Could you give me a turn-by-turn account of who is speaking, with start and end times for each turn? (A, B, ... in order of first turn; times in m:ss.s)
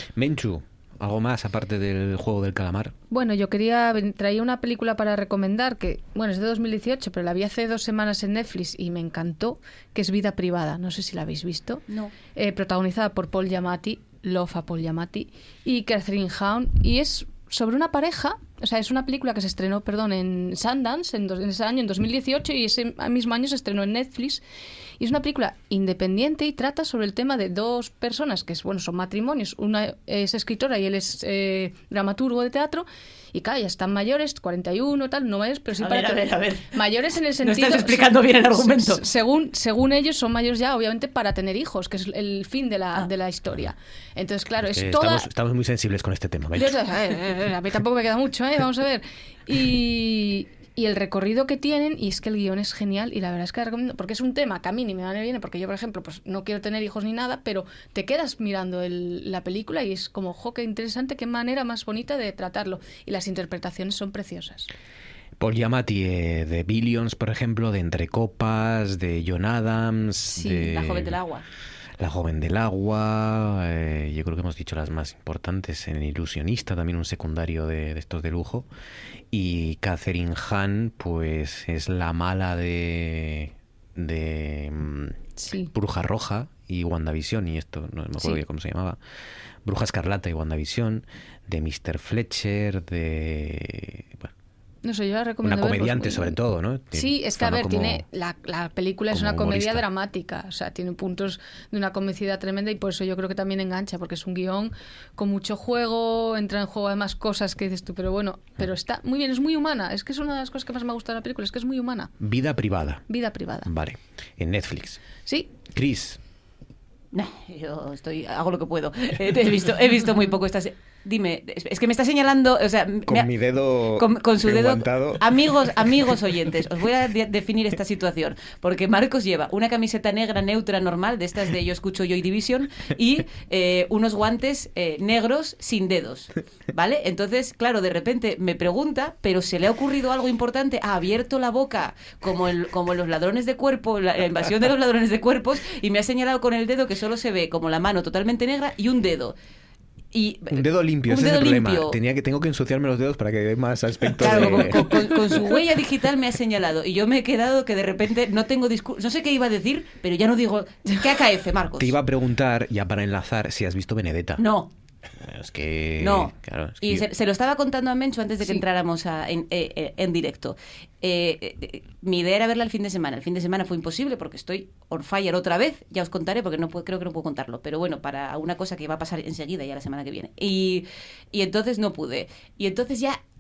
0:00.2-0:02.9 A
0:03.1-0:24.4 B
0:11.9-0:12.2 C
0:25.0-0:45.3 B
0:35.8-0:36.8 C
0:37.4-0:39.0 C
0:44.7-0:46.8 A
0:46.6-1:04.7 B
1:05.4-1:11.2 A
1:10.3-1:10.6 B
1:10.6-1:11.4 C
1:12.0-1:18.7 A
1:19.3-1:25.2 A
1:25.4-1:25.7 B
1:25.7-1:29.0 A
1:29.6-1:34.3 A
1:34.8-1:36.4 B
1:35.4-1:38.0 A
1:36.9-1:52.1 B
1:39.1-1:39.9 A
1:52.2-1:53.0 A
1:53.1-1:53.7 B
1:53.6-1:55.0 A
1:55.7-1:56.2 A
1:57.1-2:03.3 C
2:03.1-2:06.2 A
2:03.9-2:29.4 C
2:30.1-2:32.0 C
2:30.5-2:35.3 A
2:34.2-2:41.9 C
2:34.2-2:35.6 B
2:41.8-2:44.5 A
2:44.4-2:44.7 C
2:45.2-2:47.1 A
2:46.0-3:03.2 C